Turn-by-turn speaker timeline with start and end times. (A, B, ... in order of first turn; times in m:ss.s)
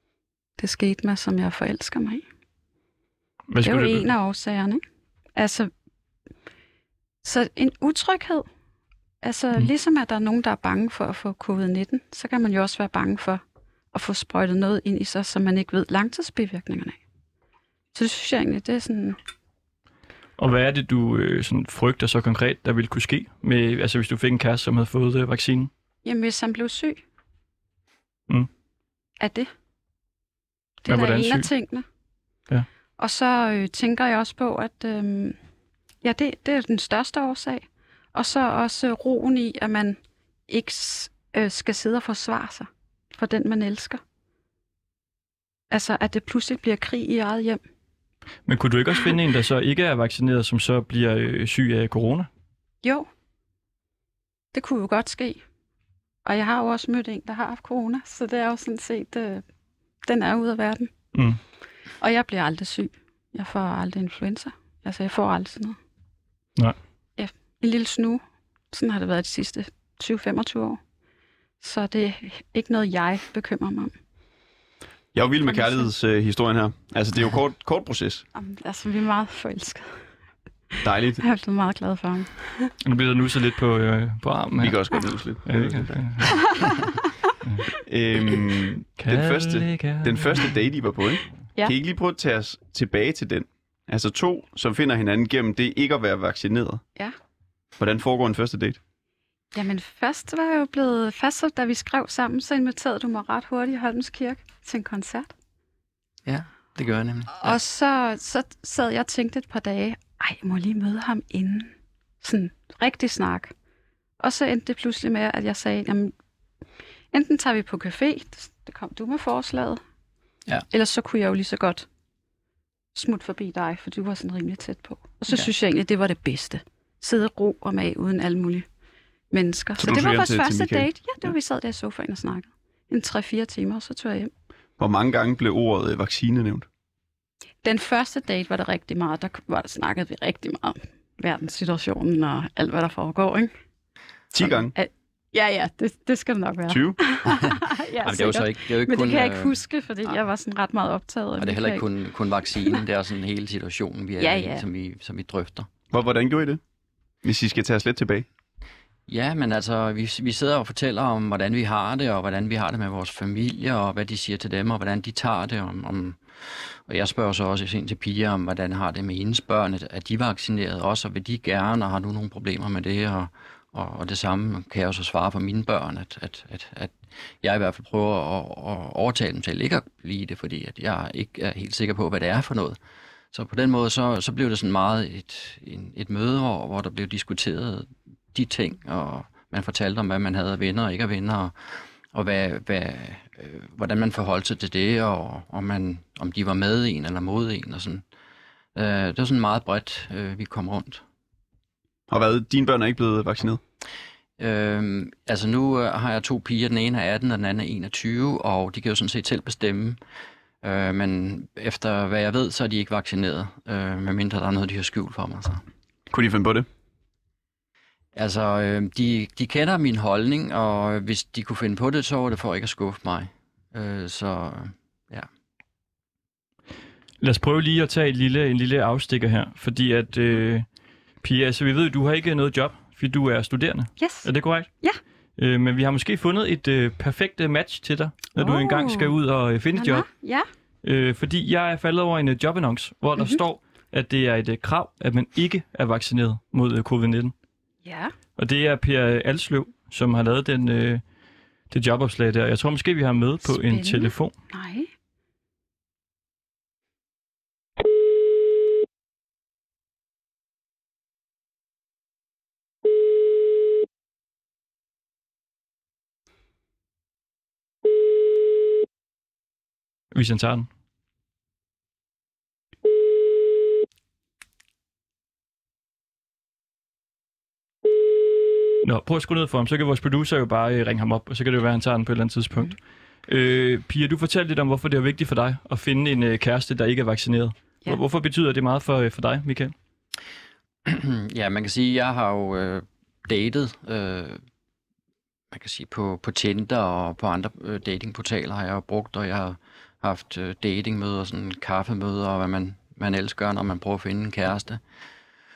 0:00.6-0:02.2 A
0:03.5-0:04.1 B
0:03.6-0:04.8 A
0:05.4-0:05.7 A
0:07.2-0:08.5 A
0:09.2-0:13.4 A
0:13.9-0:17.0 A
0:18.0-0:19.2 A
0:20.4-0:25.7 B
0:26.0-0:27.0 A
0:29.2-0:29.5 A
0:30.8-0:31.8 A
0:30.9-0:31.5 B
0:33.0-0:35.4 A
0:36.0-0:40.0 A
0:40.5-0:44.0 A
0:45.7-0:47.6 A
0:48.5-0:52.3 B
0:52.8-0:53.1 A
0:54.5-0:55.4 A
0:56.2-0:59.4 A
1:00.0-1:00.9 A
1:02.0-1:05.8 A
1:07.2-1:08.2 A
1:08.7-1:10.8 A
1:11.6-1:13.9 A
1:15.1-1:18.2 C
1:15.5-1:15.9 A
1:18.4-1:19.9 A
1:20.8-1:21.2 C
1:21.2-1:22.7 A
1:22.8-1:24.8 B
1:24.6-1:26.5 C
1:25.4-1:26.5 B
1:27.8-1:36.8 C
1:29.0-1:30.6 B
1:37.8-1:38.8 C
1:39.5-1:45.3 A
1:46.3-1:47.6 D
1:47.4-1:53.5 A
1:54.2-1:56.1 A
1:57.1-1:59.8 A
2:00.7-2:01.9 A
2:03.0-2:08.7 A
2:09.3-2:14.3 A
2:09.8-2:10.9 C
2:14.8-2:16.7 C
2:17.6-2:23.5 A
2:24.3-2:24.7 C
2:24.7-2:31.9 A
2:26.7-2:27.2 C
2:28.0-2:29.6 D
2:31.4-2:35.7 D
2:34.2-2:34.6 A
2:35.9-2:36.6 C
2:37.2-2:38.3 C
2:39.1-3:02.8 D
3:03.3-3:18.0 D
3:18.8-3:21.0 D
3:22.1-3:23.6 C
3:24.4-3:30.0 D
3:30.6-3:35.6 D
3:36.1-3:36.7 C
3:38.2-3:45.3 D
3:47.2-3:50.7 B
3:51.2-3:54.7 B
3:54.0-3:54.3 A
3:55.4-4:00.1 B
3:58.4-3:59.1 A
3:59.7-4:00.5 A
4:00.8-4:07.3 B
4:03.2-4:03.4 A
4:07.8-4:08.1 A
4:08.4-4:11.0 B
4:11.7-4:14.3 B
4:13.4-4:14.9 A
4:30.1-4:30.7 B
4:38.8-4:49.7 B
4:50.8-4:54.4 D
4:55.5-5:04.8 D